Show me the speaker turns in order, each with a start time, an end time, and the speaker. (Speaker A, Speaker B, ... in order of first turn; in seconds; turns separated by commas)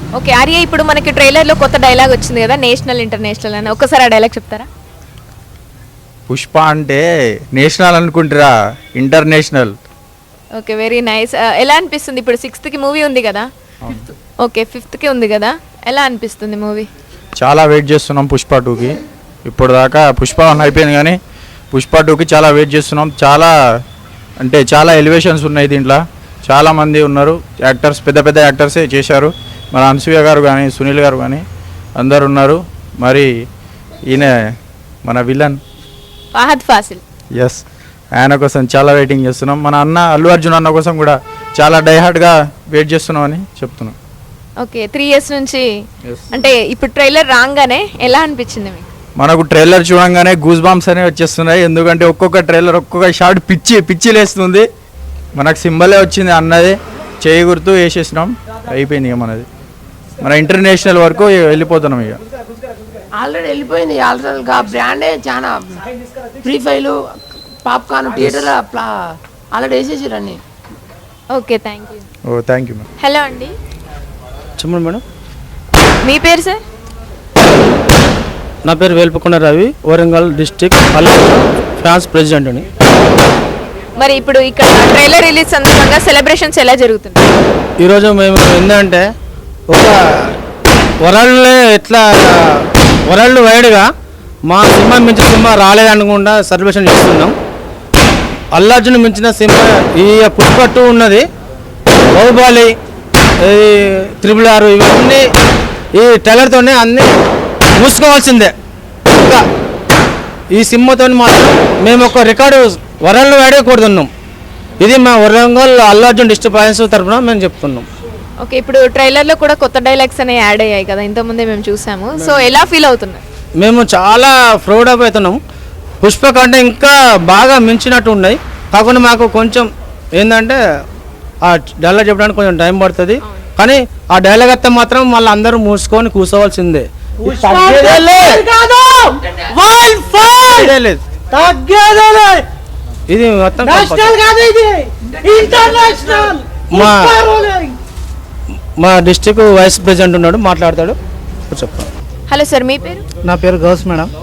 Speaker A: 0.1-4.7, Speaker B: 6.3-7.0, Speaker B: 7.5-9.8, Speaker A: 10.5-13.5, Speaker B: 13.8-14.1, Speaker A: 14.4-16.9, Speaker B: 17.4-21.1, Speaker B: 21.7-23.5, Speaker B: 24.4-31.4, Speaker B: 32.0-33.3, Speaker B: 34.1-34.4, Speaker B: 35.0-35.6, Speaker A: 36.3-37.0, Speaker B: 37.4-37.6, Speaker B: 38.1-43.9, Speaker A: 44.6-45.6, Speaker A: 46.3-48.9, Speaker B: 49.2-54.6, Speaker B: 55.3-59.5, Speaker B: 60.2-62.2, Speaker C: 63.1-65.8, Speaker C: 66.4-70.4, Speaker A: 71.3-72.0, Speaker B: 72.3-72.8, Speaker A: 73.0-73.5, Speaker D: 74.6-75.0, Speaker A: 76.0-76.6, Speaker D: 78.7-82.6, Speaker A: 84.0-87.3, Speaker D: 87.8-89.0, Speaker D: 89.7-90.3, Speaker D: 91.0-93.9, Speaker D: 94.5-97.3, Speaker D: 98.5-101.2, Speaker D: 102.1-102.7, Speaker D: 103.4-105.2, Speaker D: 105.9-107.1, Speaker D: 107.8-108.5, Speaker D: 109.1-109.4, Speaker D: 110.5-114.1, Speaker D: 114.8-117.8, Speaker A: 118.4-123.2, Speaker D: 123.6-125.4, Speaker D: 126.0-130.6, Speaker D: 131.4-138.4, Speaker E: 137.2-140.7, Speaker C: 139.2-139.5, Speaker D: 140.4-141.0, Speaker E: 141.3-142.4, Speaker D: 143.1-144.1, Speaker E: 143.6-147.7, Speaker C: 145.1-146.4, Speaker D: 146.7-147.2, Speaker D: 148.8-151.0, Speaker D: 151.5-151.9, Speaker A: 152.3-153.0, Speaker E: 153.2-154.1